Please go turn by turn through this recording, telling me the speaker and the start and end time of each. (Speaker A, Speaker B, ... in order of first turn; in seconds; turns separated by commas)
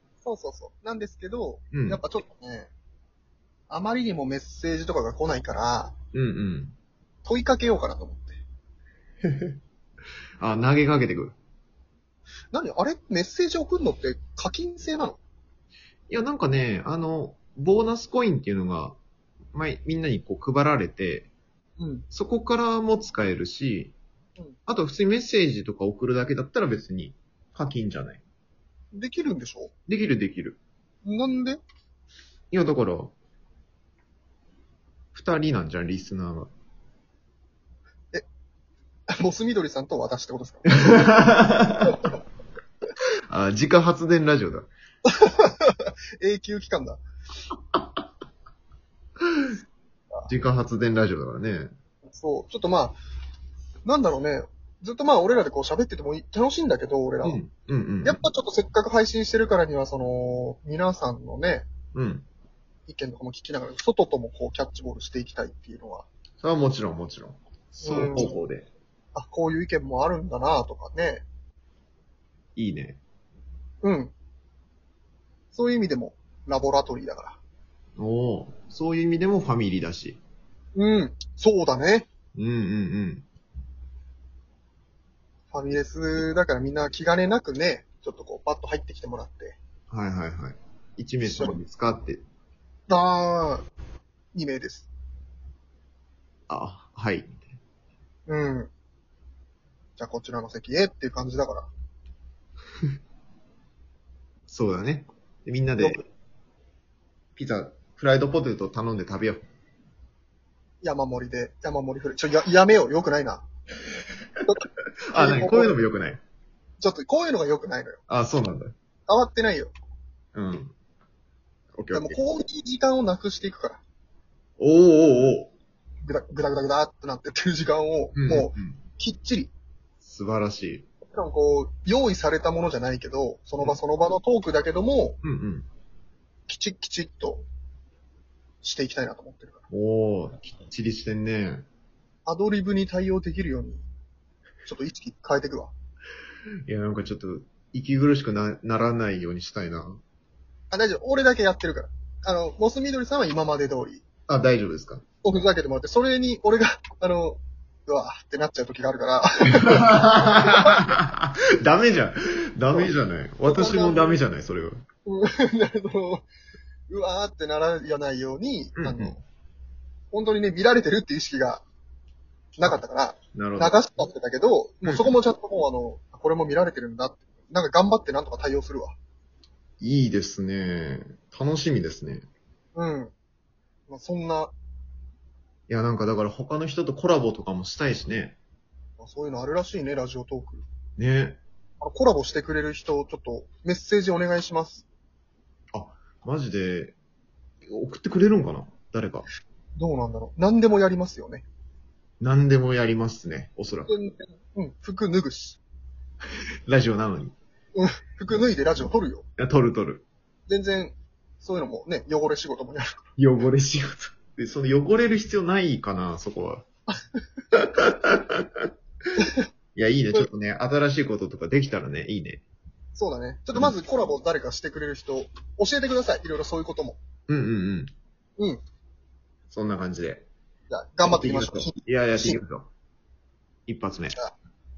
Speaker A: 0.2-2.7, Speaker B: 1.7-2.0, Speaker A: 3.7-5.9, Speaker B: 6.1-6.8, Speaker A: 7.2-8.4, Speaker B: 9.3-9.5, Speaker B: 10.4-11.4, Speaker A: 12.5-15.2, Speaker B: 16.1-19.0, Speaker B: 19.5-21.3, Speaker A: 21.8-22.1, Speaker B: 22.1-23.9, Speaker B: 24.7-28.2, Speaker A: 28.9-29.7, Speaker B: 29.9-30.6, Speaker A: 31.1-31.6, Speaker B: 32.5-33.1, Speaker B: 35.1-36.5, Speaker A: 39.2-40.9, Speaker B: 40.8-42.0, Speaker B: 43.3-44.7, Speaker A: 45.1-47.0, Speaker B: 50.3-51.7, Speaker A: 52.1-53.0, Speaker A: 53.9-57.4, Speaker B: 57.2-58.2, Speaker A: 58.0-61.7, Speaker B: 61.9-62.2, Speaker A: 62.9-66.1, Speaker B: 66.4-68.7, Speaker A: 67.8-68.4, Speaker A: 69.1-71.2, Speaker B: 72.6-73.0, Speaker A: 73.8-74.1, Speaker A: 75.5-77.4, Speaker B: 78.0-80.2, Speaker A: 80.8-82.1, Speaker B: 82.3-83.2, Speaker A: 85.5-89.6, Speaker B: 89.9-92.2, Speaker A: 91.2-91.6, Speaker A: 92.9-93.7, Speaker A: 94.3-94.9, Speaker B: 96.5-97.6, Speaker A: 98.3-98.7, Speaker A: 100.0-101.7, Speaker B: 104.5-106.0, Speaker B: 107.4-109.5, Speaker A: 110.8-113.5, Speaker B: 115.1-116.2, Speaker A: 115.1-115.8, Speaker A: 116.8-118.0, Speaker B: 118.1-118.7, Speaker A: 119.1-119.7, Speaker B: 120.3-120.7, Speaker B: 121.8-122.2, Speaker A: 121.9-123.8, Speaker B: 124.6-125.5, Speaker A: 126.0-129.5, Speaker B: 128.1-128.8, Speaker B: 130.0-130.9, Speaker A: 131.1-135.2, Speaker B: 135.2-135.7, Speaker A: 136.5-137.4, Speaker A: 138.6-139.7, Speaker B: 139.7-141.7, Speaker A: 142.2-143.8, Speaker A: 144.6-145.7, Speaker B: 146.7-150.0, Speaker A: 150.7-154.1, Speaker B: 154.3-155.0, Speaker A: 155.2-160.8, Speaker B: 159.6-164.8, Speaker A: 163.4-164.2, Speaker A: 165.1-166.2, Speaker A: 166.9-169.2, Speaker B: 168.8-169.2, Speaker A: 170.1-171.6, Speaker A: 172.6-179.0, Speaker B: 173.3-173.8, Speaker B: 179.8-182.3, Speaker A: 182.8-183.1, Speaker A: 183.9-184.5, Speaker B: 185.7-188.4, Speaker A: 189.0-190.6, Speaker B: 191.0-191.4, Speaker A: 191.8-194.9, Speaker B: 195.7-197.0, Speaker B: 197.7-199.3, Speaker A: 199.8-201.4, Speaker B: 202.2-203.9, Speaker A: 203.9-205.6, Speaker B: 206.7-207.4, Speaker A: 207.8-209.2, Speaker B: 209.4-210.1, Speaker A: 210.5-213.1, Speaker B: 213.2-216.6, Speaker B: 217.5-218.7, Speaker B: 219.8-222.4, Speaker A: 222.9-227.0, Speaker B: 227.3-227.9, Speaker B: 229.5-230.2, Speaker A: 230.7-232.4, Speaker B: 231.0-232.7, Speaker B: 233.7-234.2